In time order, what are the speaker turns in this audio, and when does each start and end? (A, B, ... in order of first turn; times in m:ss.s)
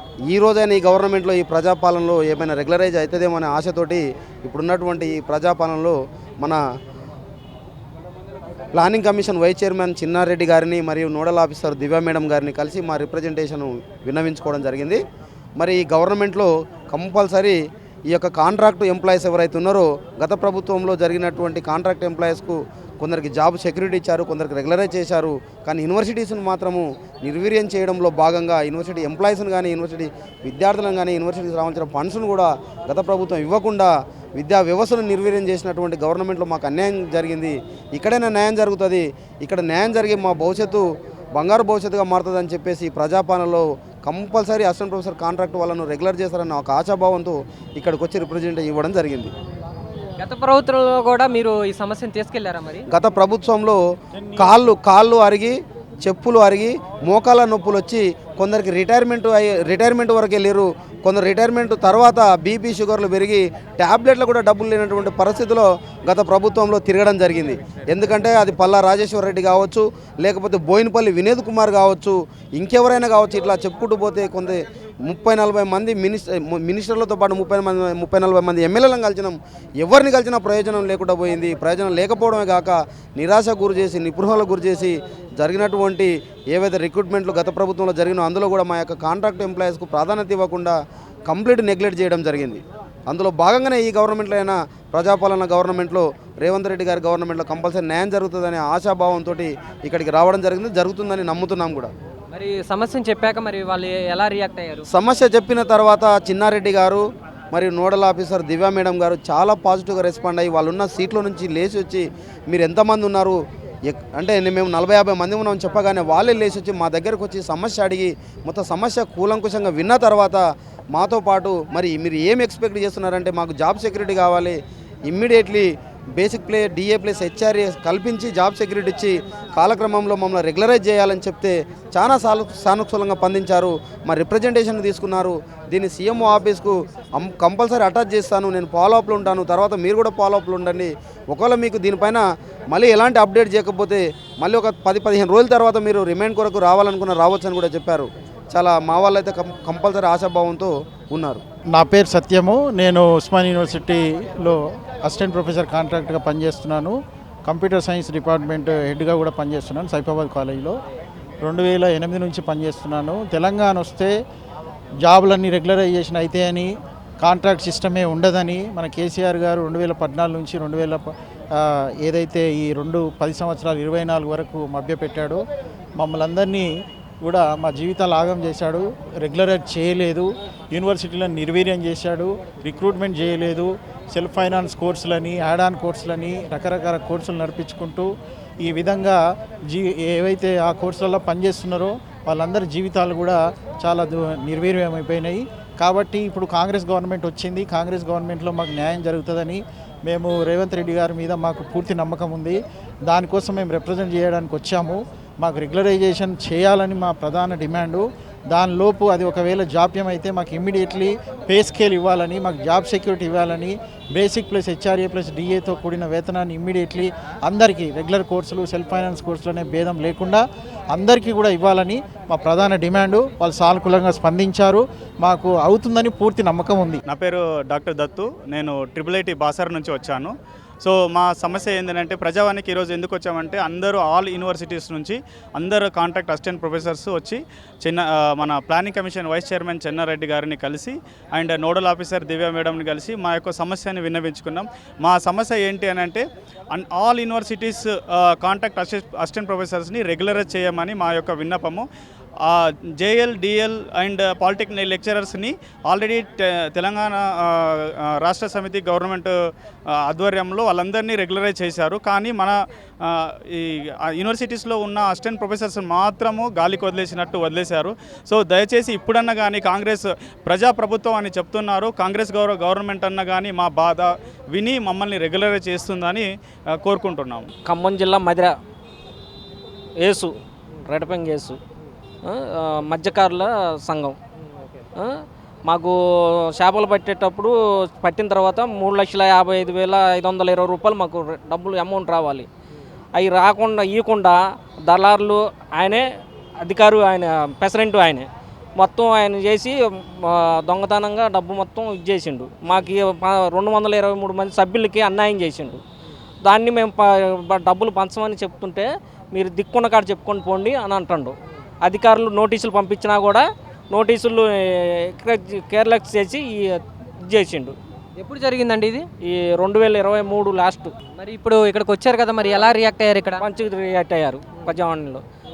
0:00.3-0:06.6 A
0:08.7-0:15.0 A
0:15.6-0:17.6 A
0:18.1-0:40.8 A
0:41.4-0:49.3 A
0:50.2-0:52.8 B
0:52.9-0:53.8 A
0:54.2-0:54.4 C
0:54.3-1:41.9 A
1:42.3-1:44.8 B
1:44.9-2:00.4 A
2:00.9-2:31.4 A
2:31.7-2:40.8 C
2:41.4-2:44.1 C
2:45.0-2:55.4 C
2:56.0-2:56.7 C
2:57.2-3:08.1 C
3:08.6-3:47.0 C
3:47.1-4:11.8 D
4:12.4-4:19.3 D
4:19.9-4:36.3 D
4:36.8-4:37.5 D
4:37.6-4:38.5 E
4:40.0-4:40.3 E
4:40.8-4:41.6 E
4:42.2-4:44.2 E
4:45.6-4:45.9 E
4:46.5-4:52.5 E
4:53.1-4:56.0 E
4:56.6-5:05.8 E
5:06.4-5:14.5 E
5:15.1-5:17.8 E
5:18.2-5:19.1 B
5:19.2-5:20.9 E
5:21.2-5:23.4 B
5:23.4-5:25.2 E